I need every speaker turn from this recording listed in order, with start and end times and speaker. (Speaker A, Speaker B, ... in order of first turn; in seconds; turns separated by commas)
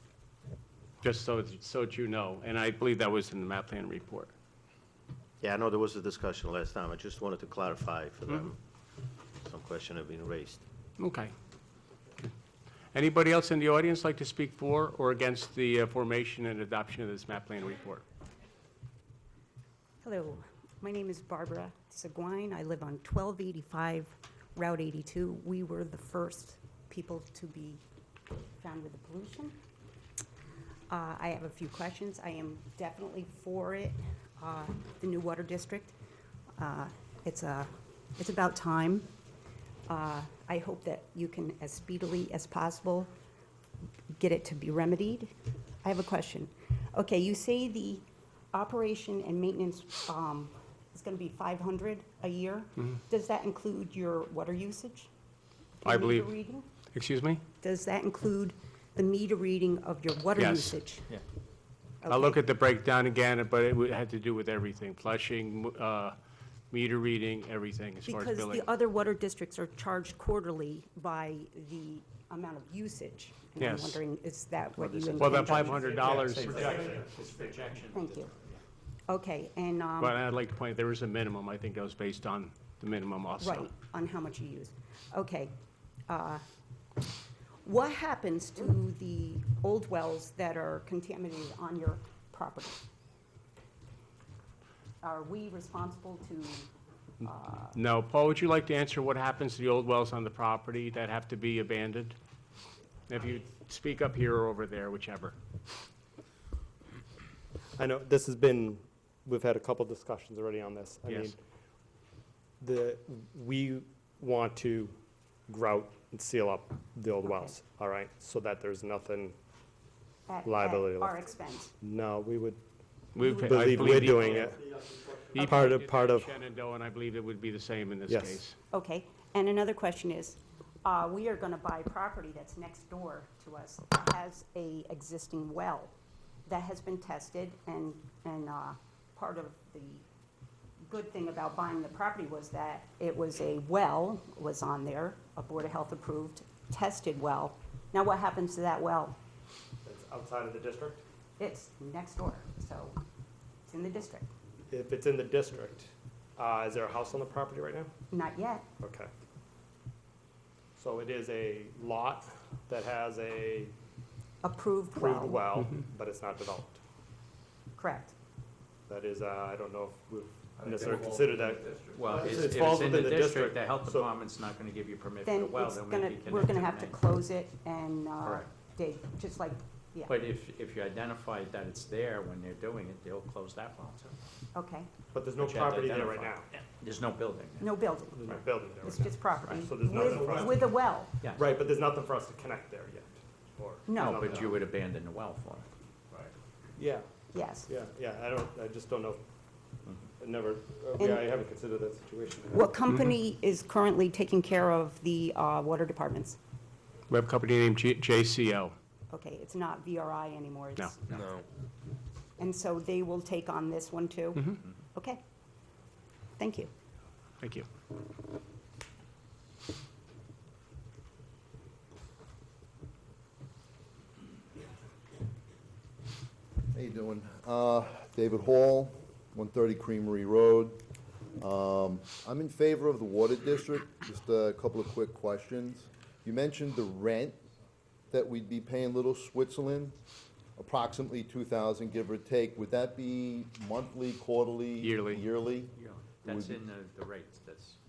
Speaker A: 1.0-4.3, Speaker B: 5.4-8.6, Speaker B: 9.4-10.6, Speaker A: 11.0-11.3, Speaker A: 12.9-18.0, Speaker C: 20.0-27.8, Speaker C: 28.6-29.6, Speaker C: 30.9-35.9, Speaker C: 36.6-39.1, Speaker C: 39.9-43.1, Speaker C: 44.1-45.3, Speaker C: 45.8-55.1, Speaker C: 55.8-56.7, Speaker A: 55.9-56.3, Speaker A: 56.9-57.4, Speaker C: 57.6-61.1, Speaker A: 60.4-61.2, Speaker C: 62.0-62.4, Speaker A: 62.1-66.2, Speaker A: 66.7-68.7, Speaker C: 68.0-76.1, Speaker A: 73.6-74.0, Speaker D: 74.8-78.5, Speaker A: 75.2-76.9, Speaker E: 75.7-77.6, Speaker C: 77.9-78.3, Speaker C: 79.1-80.2, Speaker A: 80.0-83.7, Speaker C: 83.4-85.5, Speaker C: 86.1-86.4, Speaker C: 87.6-92.8, Speaker C: 95.0-96.7, Speaker C: 97.2-97.8, Speaker A: 97.7-102.2, Speaker A: 103.1-105.3, Speaker E: 107.8-111.3, Speaker A: 111.1-111.3, Speaker E: 112.6-115.0, Speaker E: 115.5-119.3, Speaker C: 117.2-117.5, Speaker C: 120.3-121.7, Speaker E: 120.4-121.3, Speaker E: 121.8-122.6, Speaker A: 123.1-124.6, Speaker C: 123.2-124.5, Speaker E: 123.2-126.3, Speaker A: 125.3-128.5, Speaker E: 128.1-128.4, Speaker C: 128.7-135.9, Speaker C: 136.4-140.0, Speaker C: 140.9-149.2, Speaker E: 149.8-151.0, Speaker C: 151.4-153.0, Speaker C: 153.7-154.3, Speaker E: 154.7-157.9, Speaker C: 158.1-158.7, Speaker E: 158.8-159.1, Speaker E: 160.8-163.7, Speaker C: 164.4-165.4, Speaker E: 164.9-166.8, Speaker C: 167.8-168.1, Speaker E: 168.9-174.1, Speaker D: 170.7-171.0, Speaker F: 171.4-171.7, Speaker D: 171.9-177.0, Speaker C: 175.2-180.1, Speaker D: 180.1-184.1, Speaker C: 184.5-185.0, Speaker E: 185.1-186.5, Speaker D: 185.4-187.7, Speaker C: 187.6-191.2, Speaker E: 188.1-190.7, Speaker D: 191.2-191.5, Speaker E: 191.3-194.6, Speaker C: 193.8-194.5, Speaker D: 193.9-195.7, Speaker E: 196.8-197.1, Speaker C: 197.3-197.7, Speaker E: 197.7-199.2, Speaker E: 200.2-202.6, Speaker C: 201.0-201.3, Speaker C: 202.5-206.4, Speaker A: 207.1-208.8, Speaker C: 209.1-211.2, Speaker C: 212.4-215.2, Speaker C: 216.4-216.7, Speaker A: 217.4-217.7, Speaker F: 226.7-230.8, Speaker F: 231.4-237.4, Speaker F: 238.1-240.0, Speaker F: 240.6-246.6, Speaker A: 244.8-245.2, Speaker D: 245.8-247.8